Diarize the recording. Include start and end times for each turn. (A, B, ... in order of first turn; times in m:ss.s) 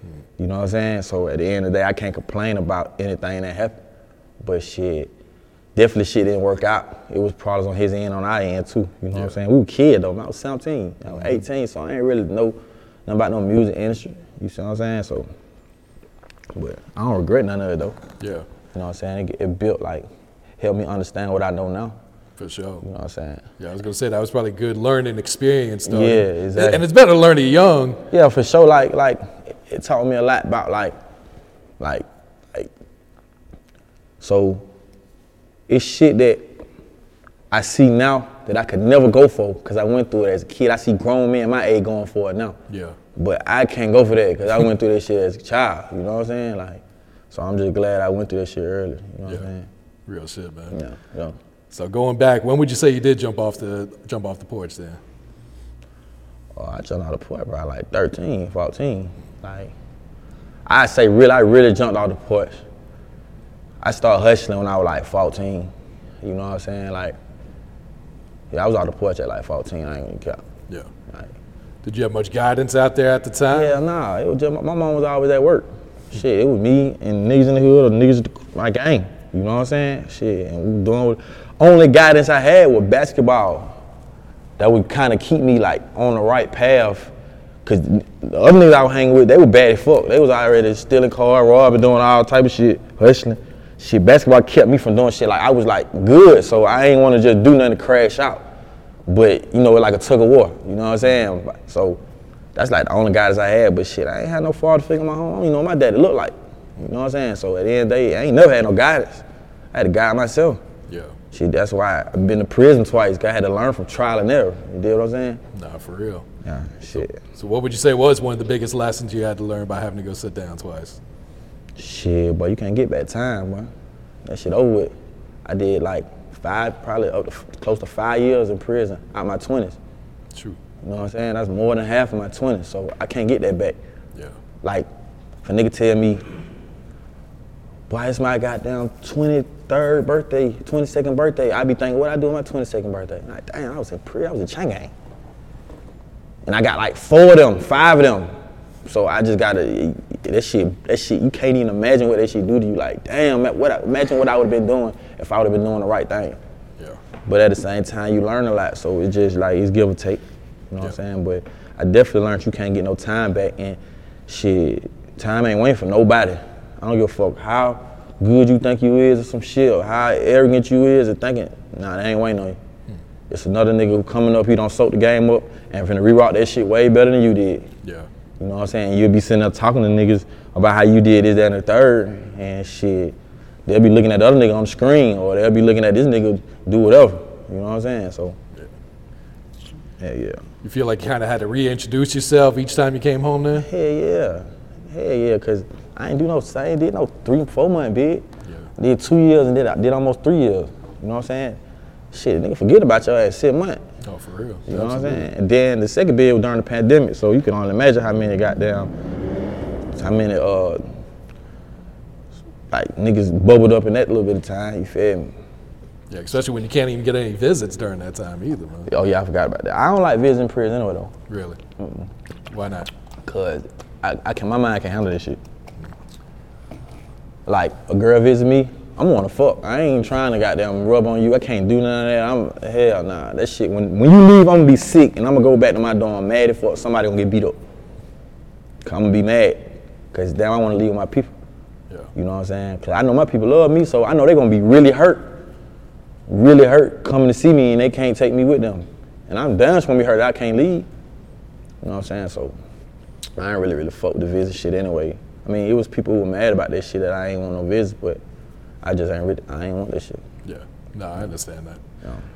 0:00.4-0:03.8 A
0:04.4-0:05.1 A
0:05.8-0:15.3 A
0:11.1-0:11.4 B
0:16.5-0:18.0 A
0:18.2-0:18.4 B
0:18.7-0:20.1 A
0:20.6-0:22.0 A
0:22.4-0:22.8 B
0:22.8-0:23.4 A
0:23.6-0:28.0 B
0:25.9-0:26.8 A
0:28.1-0:31.0 A
0:31.8-0:32.7 A
0:34.2-0:34.6 A
0:35.7-0:36.6 A
0:37.5-0:42.6 A
0:42.7-0:43.0 B
0:43.2-0:49.7 A
0:50.1-0:50.8 B
0:50.7-0:51.4 A
0:51.7-0:55.0 B
0:56.6-0:59.7 A
1:00.6-1:02.6 A
1:03.8-1:07.2 A
1:08.5-1:10.4 A
1:11.8-1:13.8 B
1:13.5-1:23.8 A
1:24.6-1:27.1 A
1:27.6-1:38.4 A
1:39.1-1:42.0 A
1:42.5-1:50.6 A
1:50.9-1:51.1 B
1:51.3-1:55.4 A
1:55.5-1:56.3 B
1:56.4-1:57.2 A
1:56.9-2:01.0 B
2:01.8-2:03.7 A
2:04.2-2:04.9 A
2:05.4-2:09.8 A
2:10.3-2:10.6 B
2:10.8-2:13.8 A
2:14.6-2:14.9 A
2:15.4-2:16.3 A
2:17.9-2:24.9 A
2:26.4-2:28.3 A
2:28.8-2:36.4 A
2:37.2-2:52.6 A
2:53.3-2:57.7 A
2:57.8-2:58.1 B
2:58.4-3:03.2 A
3:03.7-3:08.4 A
3:10.0-3:10.4 A
3:10.6-3:13.7 B
3:13.6-3:18.2 A
3:18.4-3:18.7 B
3:18.8-3:21.6 A
3:22.1-3:23.8 A
3:24.0-3:25.3 B
3:24.7-3:28.9 A
3:29.9-3:30.8 A
3:32.7-3:35.3 A
3:36.1-3:38.9 B
3:38.9-3:41.1 A
3:41.3-3:41.6 B
3:41.8-3:42.1 A
3:42.5-3:42.9 B
3:43.2-3:45.4 A
3:47.5-3:57.6 A
3:58.8-4:01.3 A
4:02.1-4:05.4 A
4:06.3-4:10.9 A
4:11.8-4:12.6 A
4:13.4-4:18.2 A
4:18.8-4:20.2 A
4:20.4-4:21.8 B